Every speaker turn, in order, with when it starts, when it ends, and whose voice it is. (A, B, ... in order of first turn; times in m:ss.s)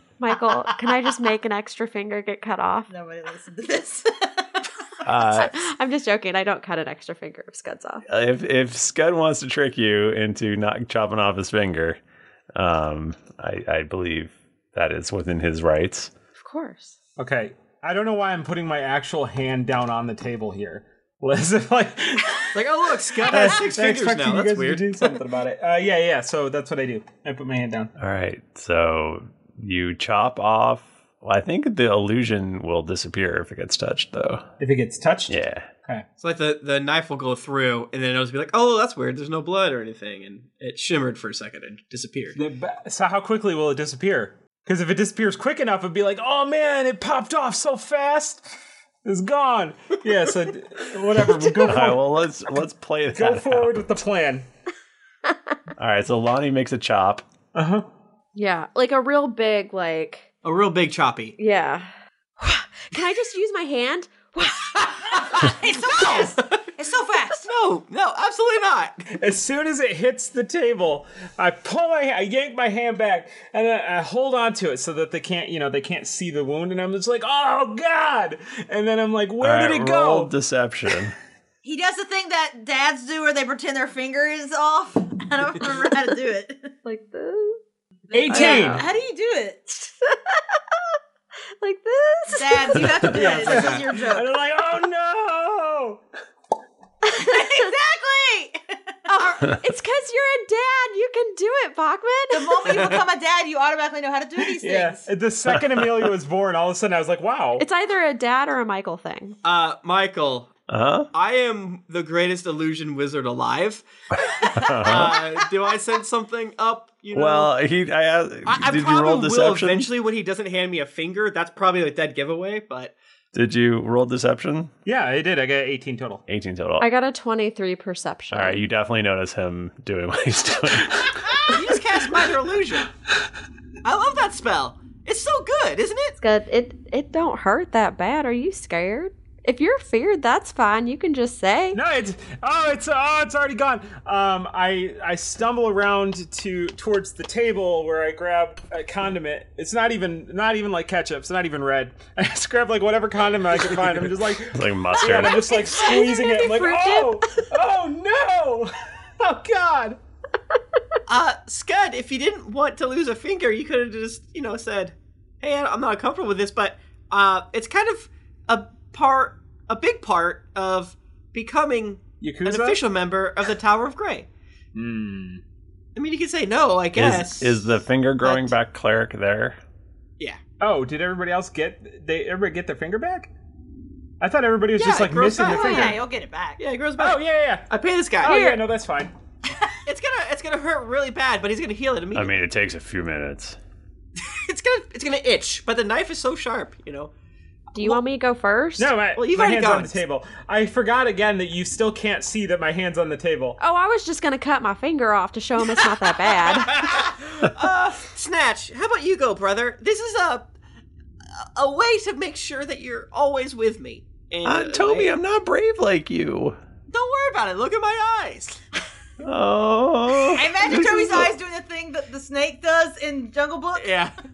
0:00.2-0:02.9 A
0:02.9-0:04.6 B
0:05.0-0:05.6 C
0:05.4-0:08.0 A
0:08.1-0:12.0 C
0:12.6-0:16.1 C
0:16.4-0:17.0 A
0:17.2-0:22.4 D
0:22.5-0:25.2 E
0:23.2-0:27.9 D
0:28.0-0:34.5 C
0:34.6-0:36.0 D
0:35.3-0:35.7 C
0:36.2-0:42.4 E
0:42.4-0:48.5 D
0:49.0-0:52.0 D
0:51.5-0:54.0 C
0:53.1-0:54.5 D
0:55.8-0:57.2 C
0:57.5-0:57.9 D
0:58.4-1:00.3 A
1:00.4-1:01.4 E
1:01.4-1:04.9 A
1:04.8-1:07.5 B
1:05.9-1:06.6 E
1:07.3-1:09.0 E
1:09.1-1:20.3 D
1:19.4-1:21.2 C
1:21.6-1:26.7 B
1:26.8-1:27.6 A
1:28.1-1:29.7 B
1:28.1-1:28.8 D
1:28.3-1:28.9 A
1:29.8-1:30.4 A
1:31.6-1:32.8 A
1:32.3-1:34.3 B
1:33.1-1:36.0 D
1:33.2-1:33.9 E
1:37.1-1:37.3 A
1:37.1-1:38.6 B
1:39.1-1:42.7 A
1:42.3-1:45.1 B
1:44.6-1:47.6 D
1:45.5-1:46.1 C
1:47.6-1:49.4 A
1:49.4-1:50.5 E
1:50.7-1:51.1 C
1:51.1-1:53.9 E
1:54.6-1:55.2 C
1:54.8-1:57.5 E
1:57.1-1:59.9 C
1:58.5-2:03.0 E
2:03.3-2:04.7 C
2:04.9-2:06.2 D
2:06.3-2:06.9 C
2:06.8-2:08.6 A
2:08.3-2:11.4 C
2:11.5-2:12.9 E
2:13.8-2:16.2 E
2:16.2-2:21.8 A
2:21.7-2:40.0 D
2:34.5-2:35.6 C
2:35.1-2:37.4 A
2:41.1-2:54.3 E
2:52.2-2:52.8 D
2:54.8-2:55.4 D
2:56.0-2:58.6 E
2:56.9-2:59.6 C
3:00.6-3:03.3 D
3:04.2-3:06.0 D
3:04.8-3:06.0 E
3:05.4-3:06.6 B
3:06.6-3:08.6 E
3:07.0-3:07.7 D
3:08.2-3:09.1 D
3:09.9-3:12.4 E
3:12.1-3:13.6 C
3:14.2-3:17.1 E
3:17.8-3:18.9 A
3:17.8-3:18.0 E
3:18.8-3:23.6 D
3:19.1-3:20.0 E
3:23.6-3:26.9 A
3:26.3-3:30.5 E
3:31.6-3:35.1 E
3:34.4-3:36.6 C
3:36.9-3:38.6 E
3:39.2-3:41.3 C
3:40.3-3:43.9 B
3:40.9-3:41.2 E
3:43.8-3:44.1 E